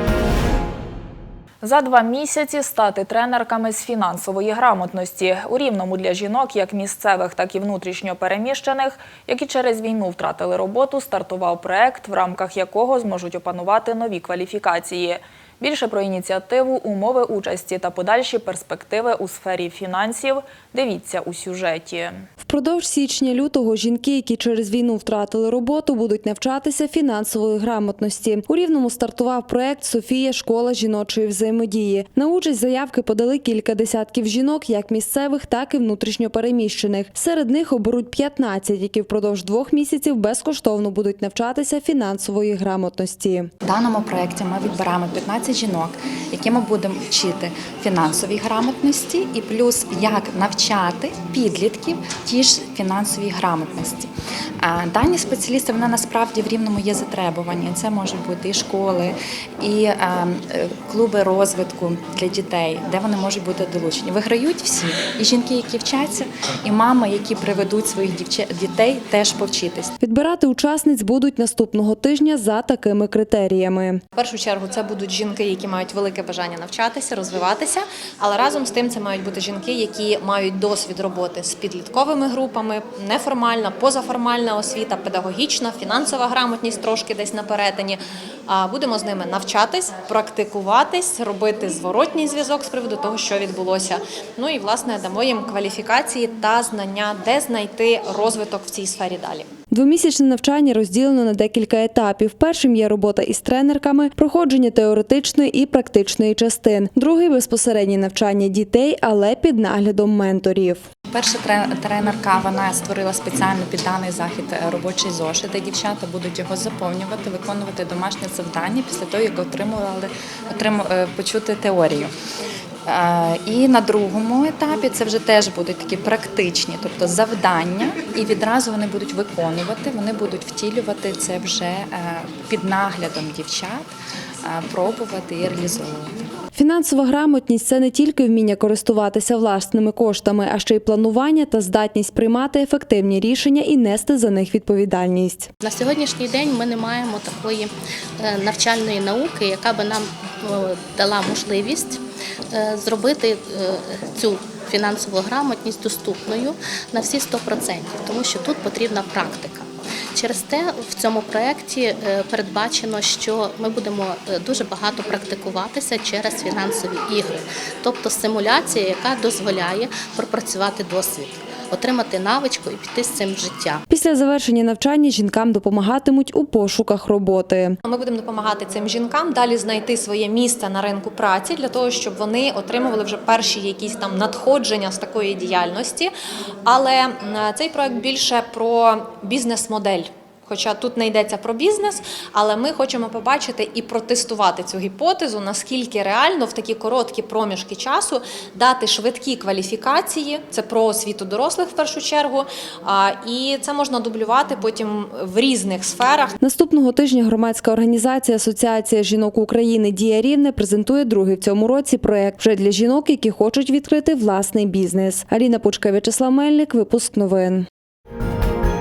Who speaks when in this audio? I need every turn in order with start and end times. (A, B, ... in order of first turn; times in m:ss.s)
0:01.6-0:22.3 A
0:22.4-0:43.5 B
0:43.6-0:54.1 C
0:54.6-1:09.9 C
1:10.0-1:14.0 B
1:14.1-1:39.5 D
1:39.7-1:50.9 B
1:51.1-2:02.1 C
2:02.8-2:13.9 C
2:14.4-2:16.2 C
2:16.5-2:25.5 B
2:25.6-2:53.8 E
2:53.9-2:57.8 B
2:57.8-3:06.1 D
3:06.6-3:26.4 D
3:26.4-3:37.6 B